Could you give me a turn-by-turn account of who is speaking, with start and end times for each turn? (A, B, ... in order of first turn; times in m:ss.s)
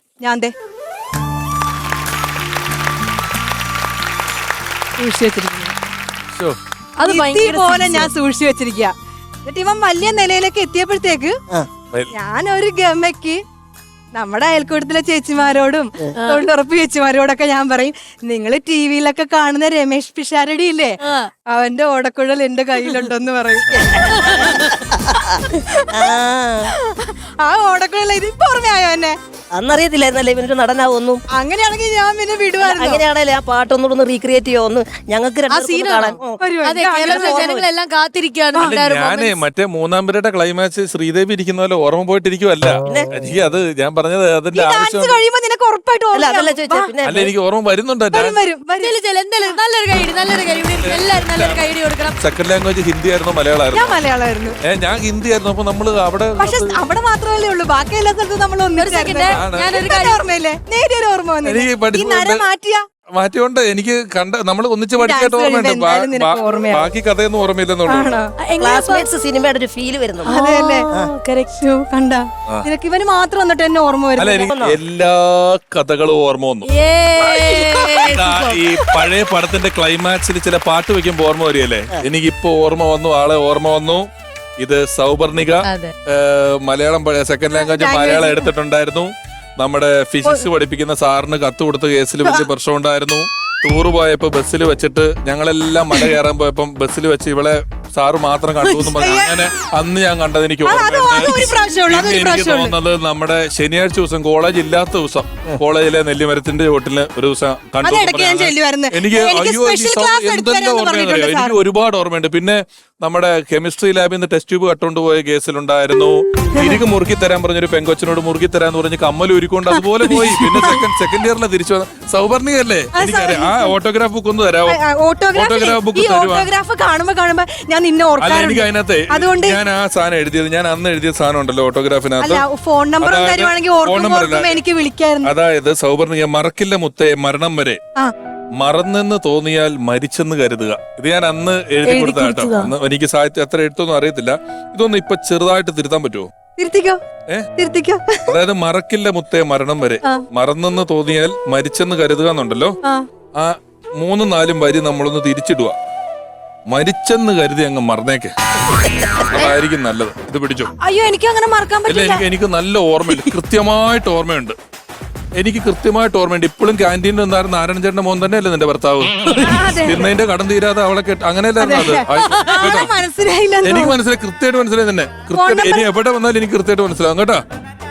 0:00.2-0:00.5 A
0:05.0-0:05.7 A
0:07.0-0:08.1 B
0:07.0-0:08.9 A
0:09.4-0:11.3 A
0:12.1-0:13.4 A
0:14.1-0:26.1 A
0:23.7-0:25.3 C
0:24.1-0:24.8 B
0:25.9-0:26.7 C
0:26.7-0:29.2 A
0:29.5-0:31.2 C
0:31.3-0:33.0 A
0:32.6-0:36.4 C
0:35.5-0:39.4 B
0:36.4-0:37.6 A
0:37.0-0:37.6 C
0:38.6-0:45.2 D
0:42.8-0:43.1 C
0:44.5-0:46.9 A
0:46.1-0:47.3 C
0:47.0-0:48.4 D
0:48.1-0:49.6 A
0:48.8-0:52.2 B
0:50.6-0:51.6 D
0:52.2-0:53.9 D
0:53.7-0:54.6 A
0:54.6-0:56.8 D
0:56.4-1:02.8 A
0:58.8-1:00.2 B
0:59.3-0:59.7 D
1:01.4-1:02.4 D
1:03.2-1:08.2 D
1:05.0-1:06.9 A
1:07.9-1:08.3 A
1:08.4-1:09.1 B
1:08.6-1:10.3 C
1:10.3-1:10.9 A
1:10.3-1:11.5 B
1:11.5-1:14.5 A
1:14.2-1:24.0 D
1:14.5-1:14.8 C
1:16.6-1:19.0 B
1:24.6-2:04.8 D
1:25.6-1:25.9 B
1:27.6-1:28.4 A
1:38.6-1:38.9 B
1:39.0-1:39.5 A
1:40.6-1:42.8 A
1:47.8-1:51.6 A
1:56.5-1:56.8 A
1:59.7-2:00.8 B
2:02.9-2:03.7 A
2:04.7-2:09.6 A
2:05.3-2:06.5 D
2:08.2-2:12.4 D
2:12.2-2:15.3 A
2:13.0-2:14.6 D
2:15.2-2:17.8 D
2:18.6-2:26.3 D
2:21.8-2:22.7 B
2:26.6-2:27.0 A
2:27.6-2:28.3 A
2:28.3-2:32.8 D
2:33.4-2:35.8 D
2:36.7-2:38.3 D
2:39.0-2:40.7 D
2:40.8-2:42.2 A
2:41.9-2:44.6 D
2:45.3-2:49.1 D
2:49.2-2:49.7 B
2:49.4-2:50.1 A
2:49.7-2:52.9 D
2:51.6-2:54.0 A
2:52.2-2:52.7 B
2:53.6-2:57.4 D
2:55.3-2:55.9 A